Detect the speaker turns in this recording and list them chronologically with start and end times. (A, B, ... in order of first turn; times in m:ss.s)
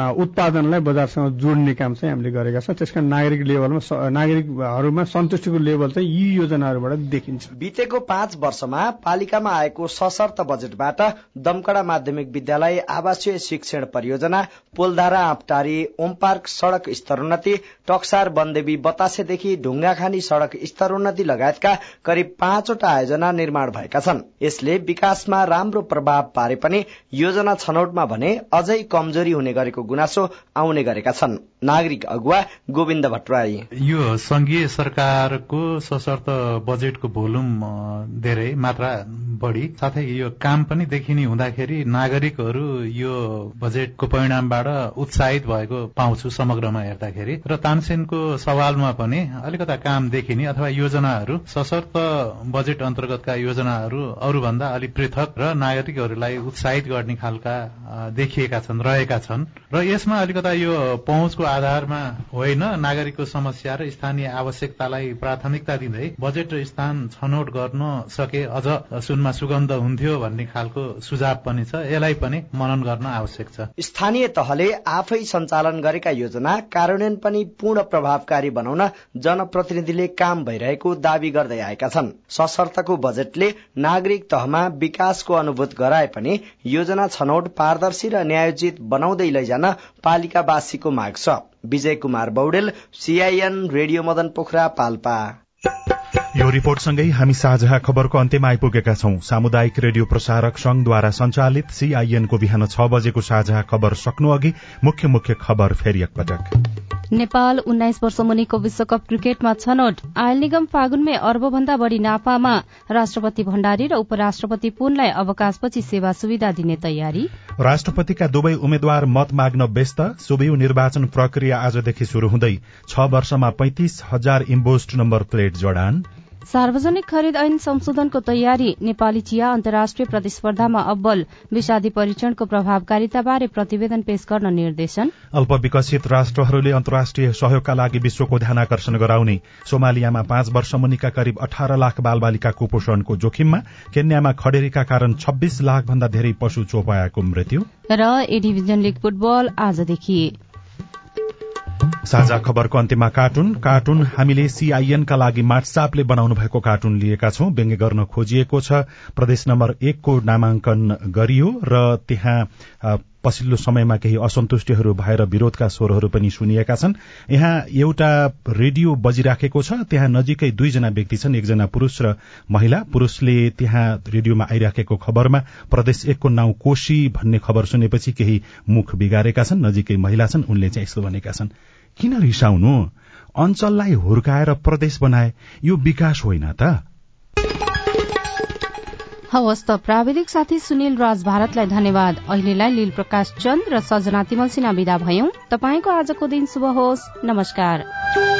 0:00.2-0:07.4 A
0:07.6-0:33.6 B
0:33.8-1:13.7 C
1:13.8-1:35.3 B
1:36.4-1:46.5 D
1:47.1-1:57.3 E
1:57.6-2:06.1 D
2:06.5-2:15.1 E
2:15.3-2:27.7 D
2:27.9-2:30.3 E
2:32.1-3:06.8 D
3:09.3-3:17.8 E